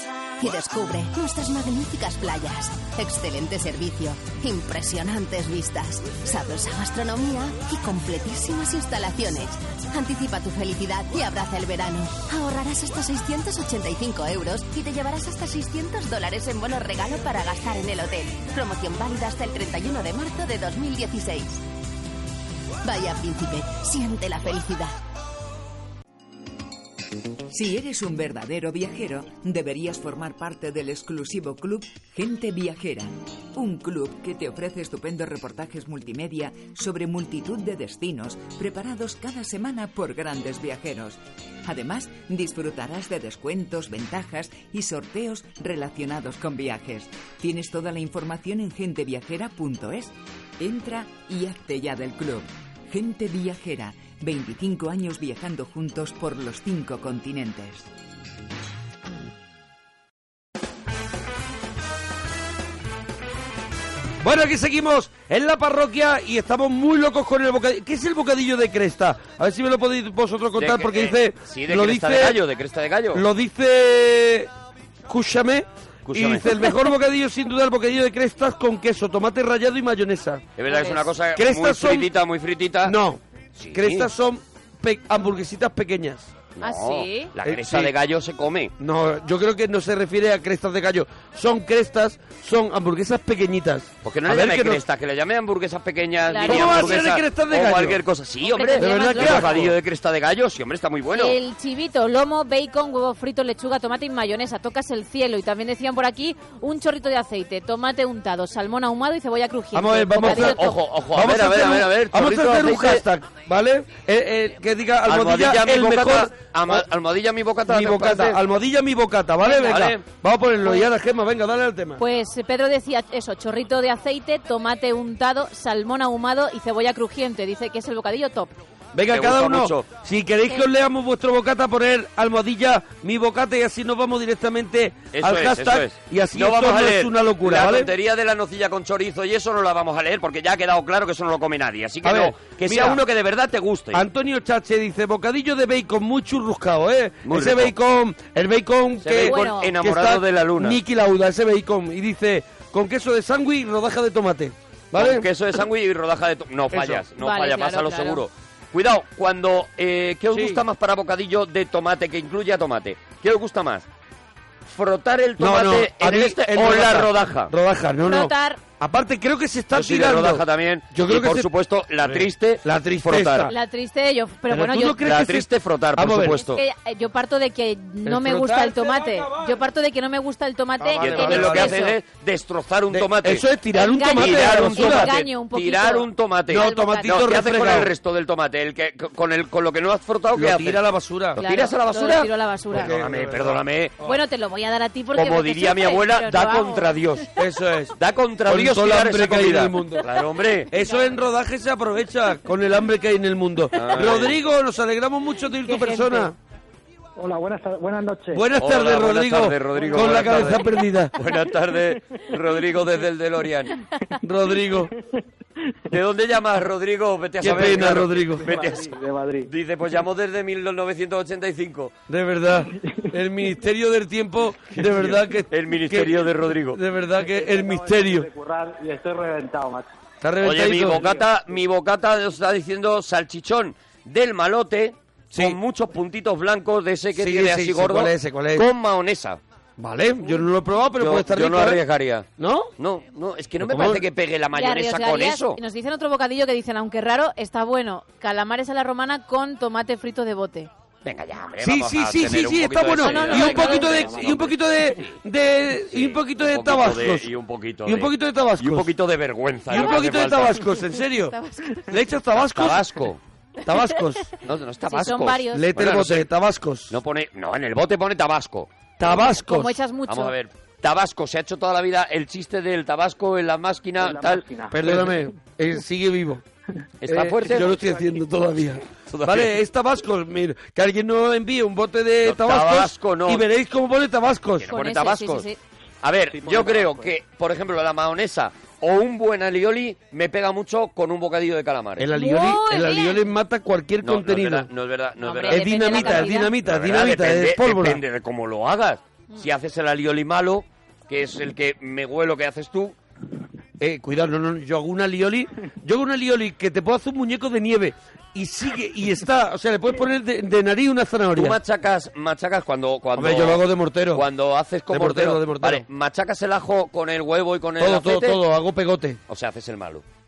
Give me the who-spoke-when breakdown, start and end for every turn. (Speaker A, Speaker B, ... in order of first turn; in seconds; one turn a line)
Speaker A: 0.4-21.6
Speaker A: 22.8-24.9
Speaker B: 27.5-57.9
Speaker C: 64.2-72.4
Speaker D: 70.6-73.2
Speaker C: 73.1-74.5
Speaker C: 75.1-80.5
Speaker D: 76.1-76.6
Speaker D: 80.6-83.0
Speaker E: 80.7-81.0
Speaker C: 81.3-82.1
Speaker C: 82.8-83.2
Speaker D: 83.6-84.1
Speaker C: 83.7-86.3
Speaker D: 86.6-88.7
Speaker E: 86.6-87.3
Speaker C: 87.4-87.9
Speaker C: 88.8-94.8
Speaker D: 94.0-101.3
Speaker E: 96.3-97.0
Speaker C: 96.5-98.0
Speaker E: 98.5-99.7
Speaker C: 98.8-99.7
Speaker E: 101.1-110.8
Speaker C: 109.7-116.8
Speaker D: 110.2-113.0
Speaker D: 115.1-118.4
Speaker C: 117.7-122.0
Speaker D: 119.4-120.0
Speaker E: 122.0-128.6
Speaker C: 128.9-137.9
Speaker D: 129.1-129.9
Speaker D: 135.1-144.0
Speaker C: 142.0-143.0
Speaker C: 143.9-155.3
Speaker D: 147.2-147.8
Speaker D: 149.0-150.8
Speaker E: 149.2-149.7
Speaker D: 154.9-163.9
Speaker C: 156.7-157.1
Speaker E: 157.2-158.2
Speaker C: 160.3-160.6
Speaker D: 164.7-167.5
Speaker C: 165.4-171.5
Speaker E: 168.1-168.6
Speaker D: 169.7-173.5
Speaker C: 172.0-173.5
Speaker E: 173.5-175.0
Speaker C: 174.5-176.4
Speaker D: 175.0-176.6
Speaker E: 176.4-181.9
Speaker C: 178.0-179.6
Speaker C: 180.8-181.8
Speaker D: 181.0-183.4
Speaker C: 182.9-185.1
Speaker E: 183.8-187.4
Speaker D: 184.1-190.8
Speaker C: 186.5-187.9
Speaker C: 190.3-191.4
Speaker E: 191.4-192.9
Speaker D: 191.4-194.0
Speaker C: 192.7-193.6
Speaker E: 194.0-196.9
Speaker D: 195.2-197.3
Speaker C: 197.4-197.9
Speaker D: 198.0-200.7
Speaker C: 198.5-200.1
Speaker C: 200.7-206.3
Speaker E: 200.8-201.1
Speaker D: 203.8-204.4
Speaker E: 205.7-206.3
Speaker F: 207.2-208.4
Speaker C: 208.3-211.1
Speaker D: 208.6-213.7
Speaker F: 209.8-210.4
Speaker C: 214.2-214.9
Speaker F: 214.7-215.0
Speaker D: 215.9-218.9
Speaker C: 217.4-218.5
Speaker F: 217.6-219.5
Speaker D: 219.5-221.9
Speaker C: 222.1-228.3
Speaker F: 222.6-223.0
Speaker D: 224.8-226.8
Speaker F: 227.2-229.9
Speaker C: 230.2-231.1
Speaker D: 230.4-239.4
Speaker C: 235.3-235.6
Speaker C: 237.2-238.7
Speaker C: 239.8-241.8
Speaker D: 241.0-242.3
Speaker C: 242.4-242.7
Speaker D: 242.8-245.6
Speaker C: 243.6-244.0
Speaker E: 244.5-250.7
Speaker D: 251.1-255.1
Speaker C: 251.6-257.3
Speaker E: 253.0-254.2
Speaker D: 255.9-260.7
Speaker C: 257.9-258.9
Speaker C: 259.7-261.4
Speaker E: 259.8-260.4
Speaker E: 260.9-261.9
Speaker C: 261.9-262.8
Speaker D: 262.4-263.2
Speaker C: 263.6-264.3
Speaker D: 264.4-266.3
Speaker E: 264.9-265.7
Speaker C: 265.5-266.9
Speaker D: 266.9-268.7
Speaker C: 269.0-269.7
Speaker E: 269.1-270.3
Speaker D: 270.1-274.4
Speaker F: 274.0-275.3
Speaker C: 274.7-276.4
Speaker D: 277.0-277.7
Speaker C: 277.1-284.7
Speaker F: 277.6-278.1
Speaker D: 279.1-279.5
Speaker D: 282.2-283.4
Speaker D: 284.6-285.5
Speaker E: 284.7-285.6
Speaker D: 286.0-292.1
Speaker F: 286.4-287.1
Speaker C: 292.0-294.7
Speaker E: 292.1-293.2
Speaker D: 294.0-303.0
Speaker E: 295.2-296.5
Speaker C: 295.5-298.0
Speaker C: 303.8-311.6
Speaker D: 311.4-318.4
Speaker C: 313.2-314.2
Speaker C: 314.9-315.9
Speaker C: 317.8-319.2
Speaker D: 319.3-320.0